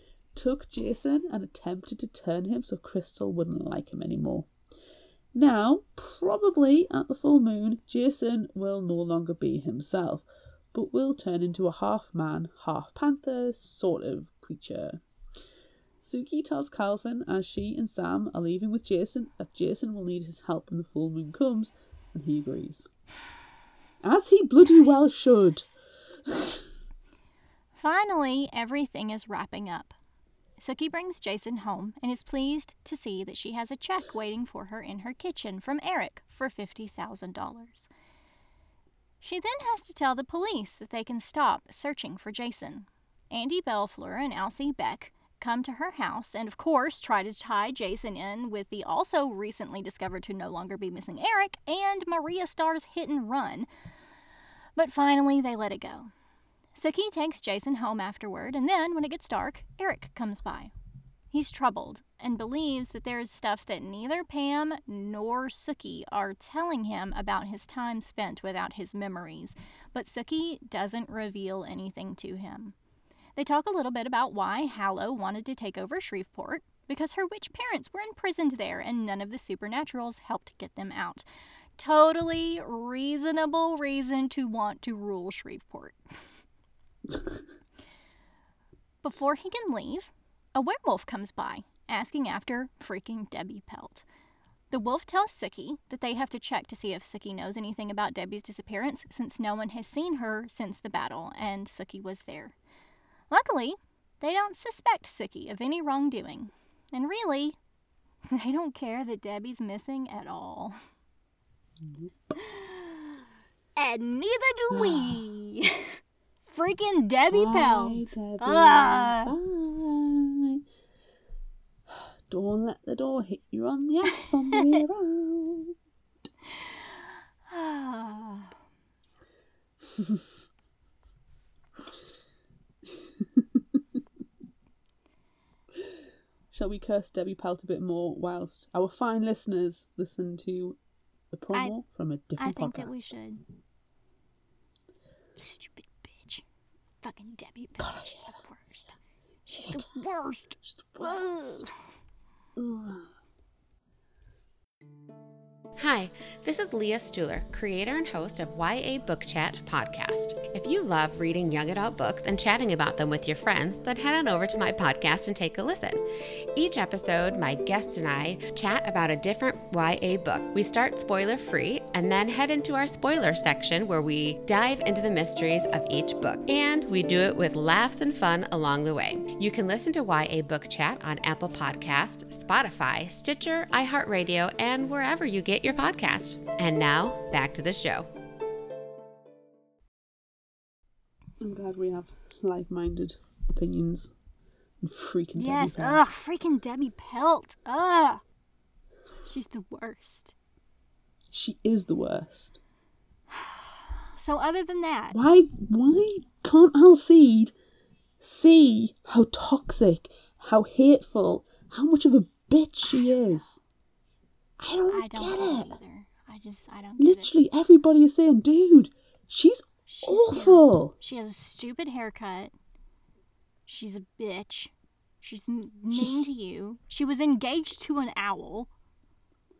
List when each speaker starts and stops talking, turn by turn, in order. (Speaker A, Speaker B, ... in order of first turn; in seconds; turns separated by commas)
Speaker A: 0.3-4.5, Speaker A: 5.3-15.0, Speaker A: 16.0-22.9, Speaker A: 24.0-25.7, Speaker A: 26.2-26.6, Speaker B: 27.8-29.9, Speaker B: 30.6-37.9, Speaker B: 39.2-53.7, Speaker B: 54.8-56.1, Speaker B: 56.8-60.7, Speaker B: 61.3-72.8, Speaker B: 73.4-81.2, Speaker B: 81.8-86.2, Speaker B: 89.0-94.0, Speaker B: 94.7-102.5, Speaker B: 103.3-107.6, Speaker B: 108.3-110.8, Speaker A: 111.8-112.3, Speaker B: 112.4-112.8, Speaker B: 113.8-119.3, Speaker A: 114.7-115.3, Speaker A: 117.3-120.6, Speaker A: 121.9-125.8, Speaker B: 127.5-128.5, Speaker A: 129.9-130.2, Speaker A: 132.9-133.8, Speaker A: 136.5-140.8, Speaker A: 141.3-143.2, Speaker B: 142.4-143.4, Speaker B: 145.4-146.4, Speaker B: 147.0-151.7, Speaker A: 147.8-148.4, Speaker A: 149.6-151.7, Speaker A: 152.6-153.1, Speaker C: 155.8-166.0, Speaker C: 166.6-188.1, Speaker A: 191.4-194.1, Speaker A: 194.8-196.0, Speaker B: 195.3-198.2, Speaker B: 199.2-200.3, Speaker A: 201.3-202.6, Speaker B: 203.3-205.2, Speaker A: 205.1-207.5, Speaker A: 208.2-213.6, Speaker A: 214.6-215.8, Speaker B: 214.9-217.3, Speaker A: 217.0-220.9, Speaker B: 219.9-222.5, Speaker B: 223.7-228.7, Speaker A: 225.9-226.3